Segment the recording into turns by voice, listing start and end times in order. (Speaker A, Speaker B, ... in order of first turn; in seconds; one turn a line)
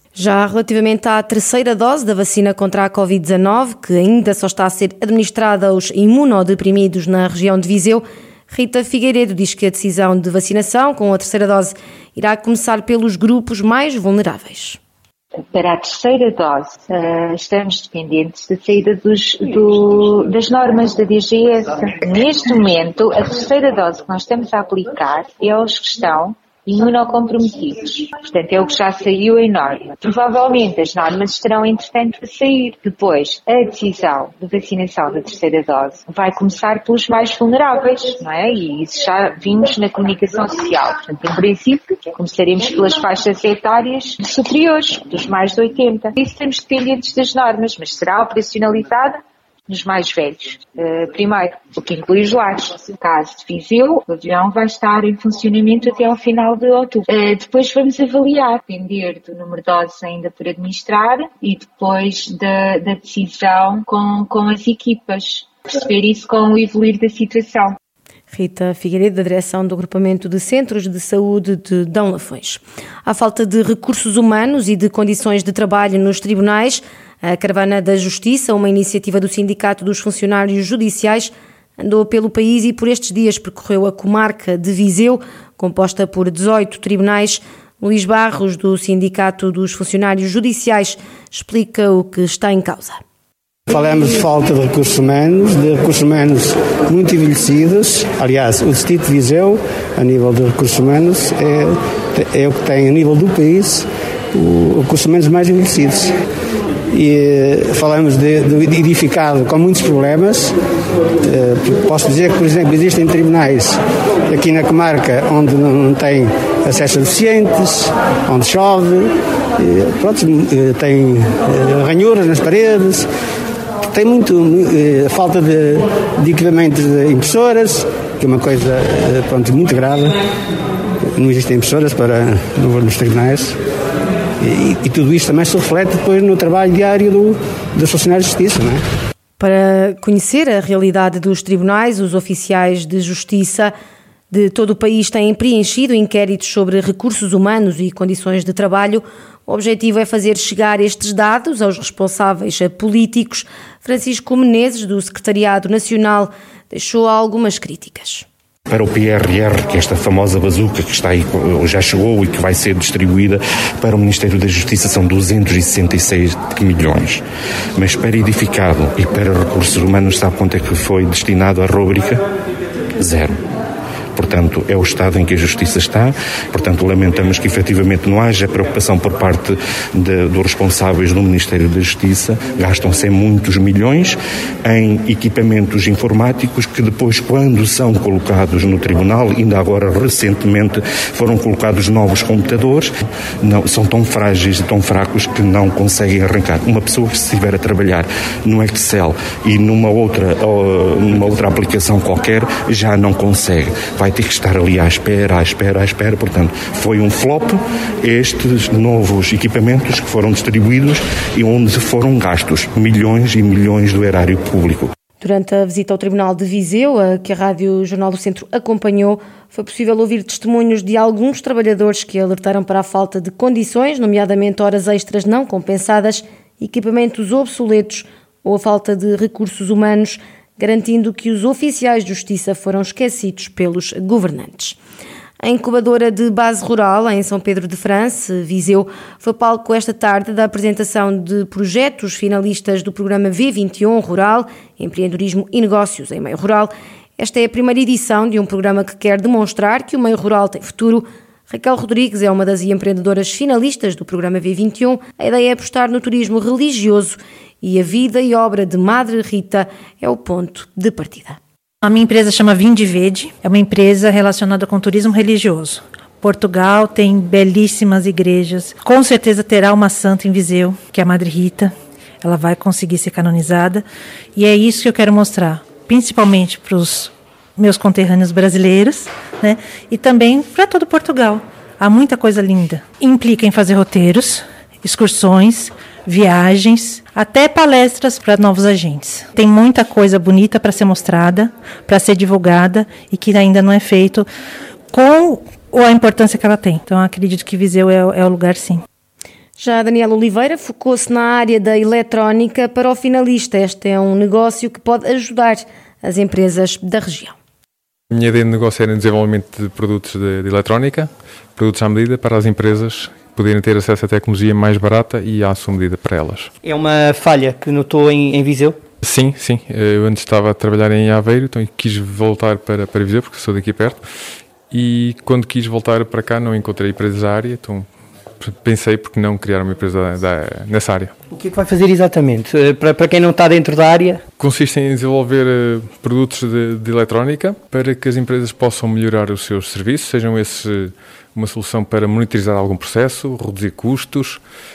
Speaker A: 0.1-14.8
Speaker B: 15.4-67.8
Speaker A: 68.3-93.0
Speaker C: 93.7-106.1
Speaker C: 106.9-110.5
Speaker C: 111.2-123.1
Speaker C: 123.9-130.2
Speaker C: 131.1-133.6
Speaker C: 134.4-138.8
Speaker A: 139.4-143.7
Speaker A: 144.3-158.3
Speaker D: 158.7-167.2
Speaker D: 167.8-172.2
Speaker D: 173.0-173.3
Speaker D: 174.2-192.9
Speaker D: 193.4-214.9
Speaker A: 215.2-234.8
Speaker A: 235.4-261.4
Speaker E: 261.8-294.3
Speaker E: 294.9-298.8
Speaker A: 299.6-307.3
Speaker F: 308.1-316.5
Speaker G: 316.6-318.8
Speaker F: 319.0-324.0
Speaker F: 324.7-327.9
Speaker F: 328.4-331.1
Speaker G: 331.3-334.2
Speaker F: 334.4-344.4